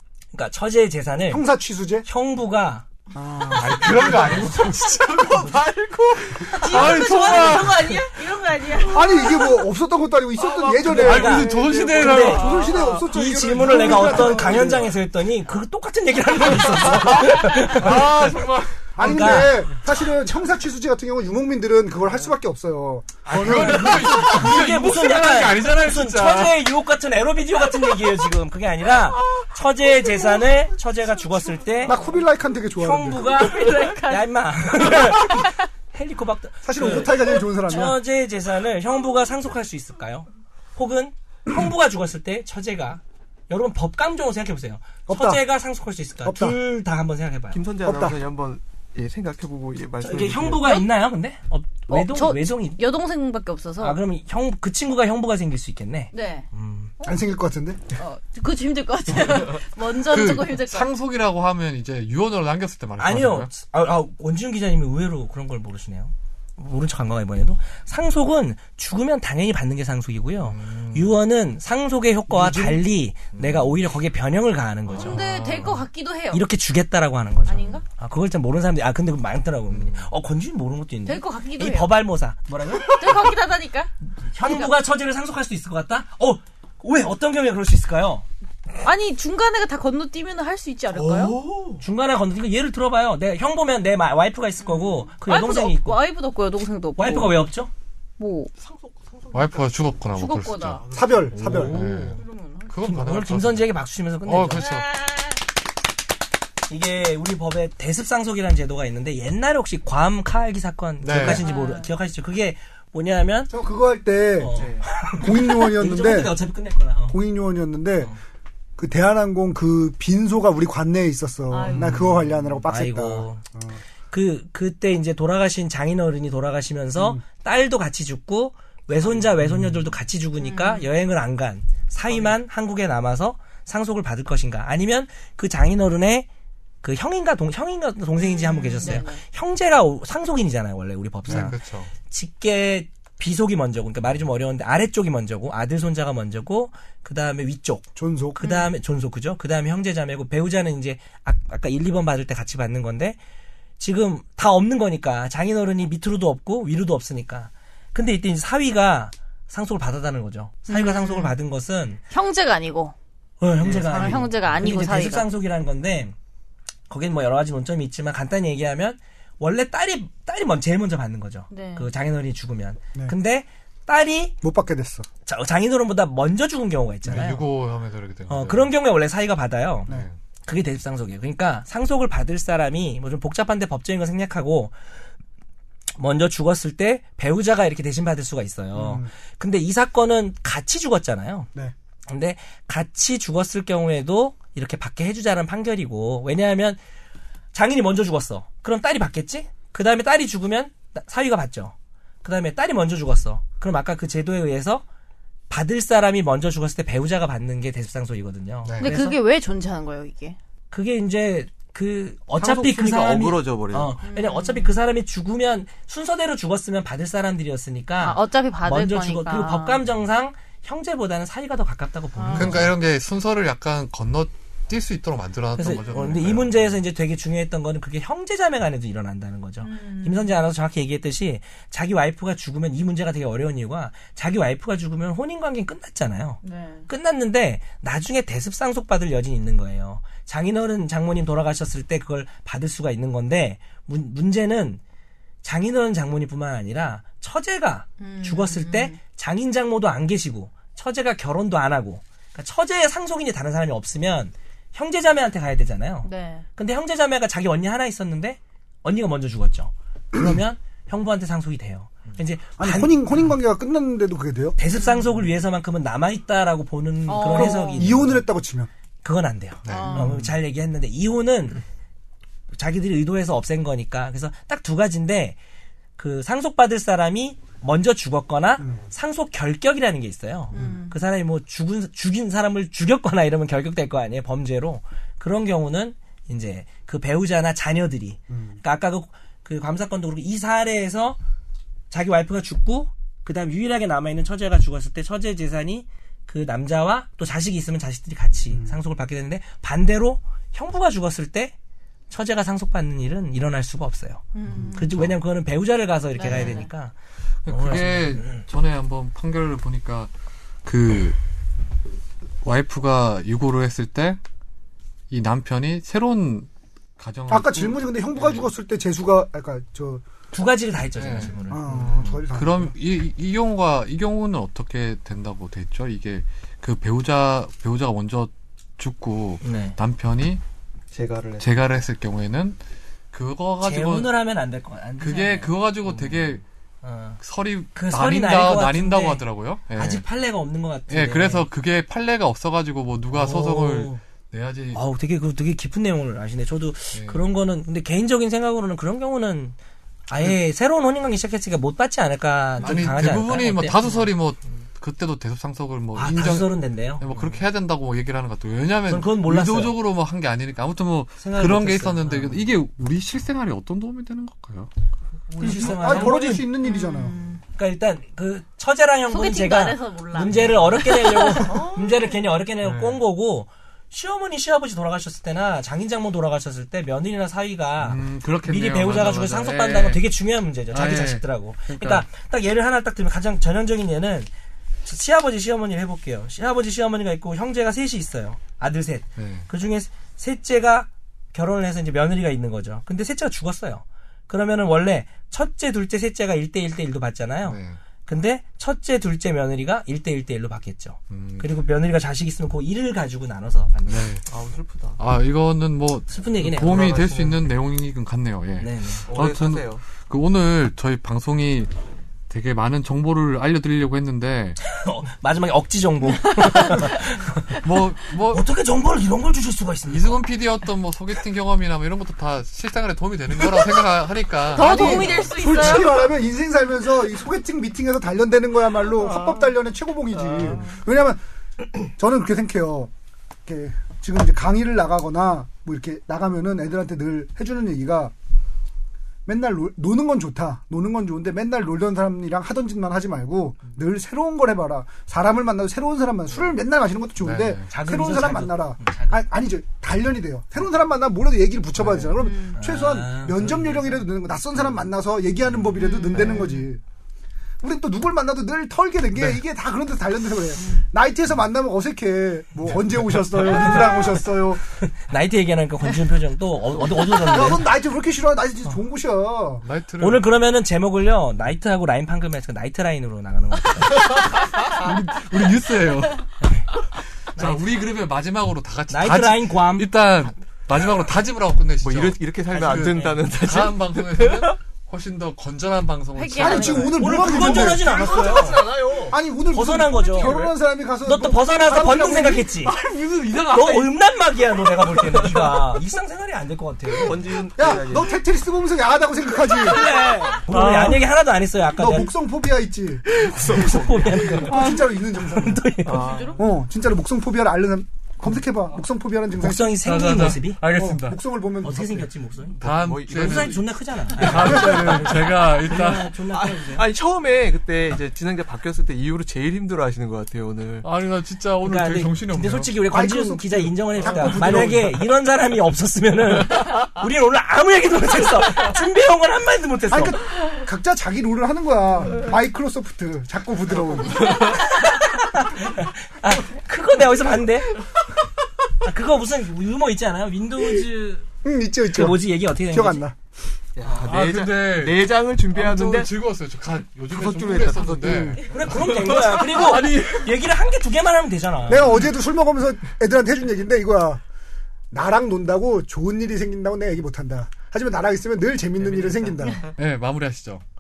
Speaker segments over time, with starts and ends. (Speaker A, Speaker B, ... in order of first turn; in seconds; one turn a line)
Speaker A: 0.3-1.5
Speaker B: 1.3-2.1
Speaker A: 2.0-2.9
Speaker B: 3.1-4.5
Speaker C: 3.4-8.2
Speaker D: 3.8-7.5
Speaker E: 6.6-9.5
Speaker B: 8.8-14.9
Speaker D: 10.4-14.8
Speaker C: 10.9-12.8
Speaker A: 11.0-12.4
Speaker A: 13.0-18.3
Speaker C: 16.7-19.5
Speaker B: 19.0-24.5
Speaker A: 19.0-19.7
Speaker C: 23.3-26.6
Speaker D: 23.4-23.6
Speaker A: 23.5-32.0
Speaker B: 31.9-33.3
Speaker A: 32.8-47.6
Speaker E: 33.2-35.6
Speaker B: 36.6-38.0
Speaker B: 45.1-45.4
Speaker B: 46.2-46.6
Speaker D: 47.5-50.7
Speaker B: 47.9-48.2
Speaker A: 50.0-52.8
Speaker E: 51.9-54.0
Speaker A: 53.8-56.9
Speaker E: 56.1-56.5
Speaker B: 57.0-57.8
Speaker E: 58.0-60.9
Speaker C: 60.0-63.5
Speaker A: 63.0-75.2
Speaker C: 70.4-71.2
Speaker B: 72.3-72.8
Speaker C: 73.3-73.8
Speaker C: 75.0-75.8
Speaker E: 75.0-76.5
Speaker A: 76.3-83.3
Speaker E: 77.5-77.8
Speaker C: 79.7-80.1
Speaker E: 81.1-82.0
Speaker E: 82.9-84.8
Speaker A: 84.3-88.3
Speaker E: 88.8-91.4
Speaker D: 90.9-91.8
Speaker A: 91.8-96.0
Speaker E: 94.6-97.4
Speaker A: 97.0-97.7
Speaker E: 98.2-98.5
Speaker D: 98.6-100.0
Speaker C: 99.3-100.8
Speaker E: 100.2-100.8
Speaker D: 100.6-101.6
Speaker B: 100.9-101.8
Speaker A: 101.4-102.2
Speaker C: 101.4-104.9
Speaker E: 102.1-102.7
Speaker A: 102.8-104.8
Speaker E: 104.7-105.3
Speaker A: 106.7-113.5
Speaker C: 111.0-111.4
Speaker E: 111.2-111.9
Speaker B: 113.5-116.4
Speaker A: 114.4-117.2
Speaker D: 114.5-114.9
Speaker B: 117.1-118.1
Speaker B: 118.8-123.8
Speaker E: 121.5-122.0
Speaker A: 122.6-123.4
Speaker A: 124.1-136.3
Speaker B: 127.0-127.2
Speaker E: 130.4-130.9
Speaker A: 136.8-153.2
Speaker E: 138.2-139.2
Speaker C: 141.3-141.9
Speaker B: 148.0-148.4
Speaker E: 148.4-148.7
Speaker A: 153.8-162.0
Speaker E: 160.7-161.3
Speaker E: 162.1-162.9
Speaker A: 163.4-166.2
Speaker D: 163.6-164.7
Speaker E: 163.8-165.3
Speaker A: 166.9-174.4
Speaker E: 171.5-171.9
Speaker B: 174.4-175.1
Speaker A: 175.2-177.5
Speaker C: 177.1-178.7
Speaker A: 178.3-179.9
Speaker C: 179.9-180.2
Speaker A: 180.4-184.7
Speaker A: 186.0-191.5
Speaker B: 188.8-189.1
Speaker A: 192.1-196.8
Speaker A: 197.5-204.8
Speaker A: 205.5-209.2
Speaker C: 208.7-208.9
Speaker E: 208.8-210.4
Speaker A: 210.7-222.8
Speaker D: 212.3-214.0
Speaker E: 214.1-214.7
Speaker E: 218.0-219.8
Speaker E: 222.2-222.6
Speaker C: 222.3-226.8
Speaker A: 225.6-244.8
Speaker E: 225.8-226.2
Speaker E: 229.6-230.3
Speaker E: 236.4-236.9
Speaker A: 245.4-263.2
Speaker E: 248.0-248.9
Speaker E: 256.0-256.4
Speaker B: 262.6-264.6
Speaker A: 264.6-268.3
Speaker E: 267.1-267.9
Speaker B: 267.3-268.7
Speaker A: 269.0-271.6
Speaker C: 269.6-270.3
Speaker E: 269.7-270.1
Speaker A: 272.5-275.4
Speaker A: 276.0-291.2
Speaker E: 280.5-280.9
Speaker B: 288.3-288.6
Speaker A: 291.9-301.6
Speaker A: 302.1-306.9
Speaker E: 304.3-305.0
Speaker C: 304.9-305.2
Speaker E: 306.1-306.7
Speaker C: 306.3-306.6
Speaker C: 307.4-310.1
Speaker A: 307.5-308.4
Speaker C: 310.6-311.2
Speaker C: 312.4-314.2
Speaker C: 315.1-318.5
Speaker B: 317.3-320.0
Speaker A: 320.3-322.2
Speaker C: 321.0-321.4
Speaker B: 321.5-322.7
Speaker C: 321.9-330.4
Speaker A: 329.4-329.8
Speaker D: 330.9-331.5
Speaker C: 331.4-332.6
Speaker C: 333.1-334.2
Speaker A: 333.6-335.5
Speaker C: 335.0-336.4
Speaker D: 335.9-336.2
Speaker A: 336.8-337.2
Speaker C: 337.2-340.0
Speaker A: 337.8-339.2
Speaker A: 339.8-341.5
Speaker C: 340.9-344.8
Speaker A: 343.1-344.0
Speaker A: 344.7-349.6
Speaker C: 346.9-347.2
Speaker A: 350.1-354.1
Speaker C: 352.6-364.7
Speaker A: 355.9-357.4
Speaker A: 358.9-359.8
Speaker A: 361.2-362.5
Speaker A: 365.3-366.6
Speaker B: 365.4-367.2
Speaker C: 365.5-366.2
Speaker E: 366.6-367.4
Speaker A: 367.5-384.3
Speaker E: 369.1-371.7
Speaker D: 371.4-372.0
Speaker C: 372.6-373.0
Speaker C: 377.8-380.1
Speaker C: 380.7-382.1
Speaker A: 384.9-404.1
Speaker C: 389.2-389.5
Speaker C: 397.4-397.8
Speaker C: 401.1-401.6
Speaker C: 403.9-404.3
Speaker D: 404.3-405.0
Speaker C: 405.0-411.7
Speaker A: 406.1-407.0
Speaker D: 406.6-407.5
Speaker A: 408.6-409.1
Speaker D: 409.1-409.9
Speaker C: 412.3-414.6
Speaker A: 414.6-417.5
Speaker E: 416.3-417.0
Speaker C: 417.6-418.5
Speaker A: 418.3-420.2
Speaker C: 419.9-425.5
Speaker E: 424.5-426.1
Speaker B: 424.6-431.2
Speaker A: 424.6-424.9
Speaker D: 430.2-430.6
Speaker B: 431.9-432.9
Speaker B: 433.5-438.1
Speaker B: 439.3-456.8
Speaker C: 447.2-447.7
Speaker A: 447.7-449.3
Speaker E: 452.2-452.5
Speaker A: 452.5-454.1
Speaker E: 455.8-456.7
Speaker D: 456.1-456.5
Speaker B: 457.6-464.6
Speaker A: 464.8-467.7
Speaker B: 467.1-469.6
Speaker C: 469.6-470.3
Speaker A: 470.0-474.2
Speaker C: 473.9-476.3
Speaker C: 477.3-487.2
Speaker A: 477.4-477.7
Speaker A: 478.9-479.9
Speaker D: 481.8-484.6
Speaker A: 482.5-483.3
Speaker E: 486.1-487.0
Speaker B: 486.4-488.4
Speaker A: 486.9-488.7
Speaker D: 487.1-489.2
Speaker B: 489.1-492.5
Speaker A: 489.5-490.4
Speaker D: 490.1-490.5
Speaker A: 491.0-492.8
Speaker D: 492.6-494.0
Speaker A: 493.5-497.3
Speaker D: 494.6-495.7
Speaker D: 497.0-498.1
Speaker B: 497.6-500.0
Speaker A: 499.5-502.1
Speaker C: 500.5-501.1
Speaker B: 501.8-503.1
Speaker D: 503.1-504.7
Speaker A: 503.3-506.2
Speaker B: 504.4-505.6
Speaker D: 505.9-506.5
Speaker E: 506.0-506.4
Speaker B: 506.4-509.8
Speaker A: 509.4-510.6
Speaker C: 509.8-511.2
Speaker B: 510.7-512.1
Speaker A: 511.6-516.9
Speaker C: 512.5-516.2
Speaker D: 512.6-513.6
Speaker D: 514.3-515.0
Speaker D: 516.3-520.9
Speaker C: 520.8-522.8
Speaker A: 521.6-530.2
Speaker B: 522.9-525.1
Speaker B: 529.9-534.5
Speaker D: 533.9-534.6
Speaker A: 534.4-537.9
Speaker A: 538.8-541.3
Speaker B: 541.4-543.2
Speaker A: 541.9-543.0
Speaker D: 543.8-546.1
Speaker C: 544.0-550.3
Speaker D: 547.1-550.2
Speaker B: 548.0-548.4
Speaker A: 548.4-552.1
Speaker B: 551.7-554.2
Speaker B: 554.9-559.6
Speaker D: 558.8-559.7
Speaker C: 559.8-560.6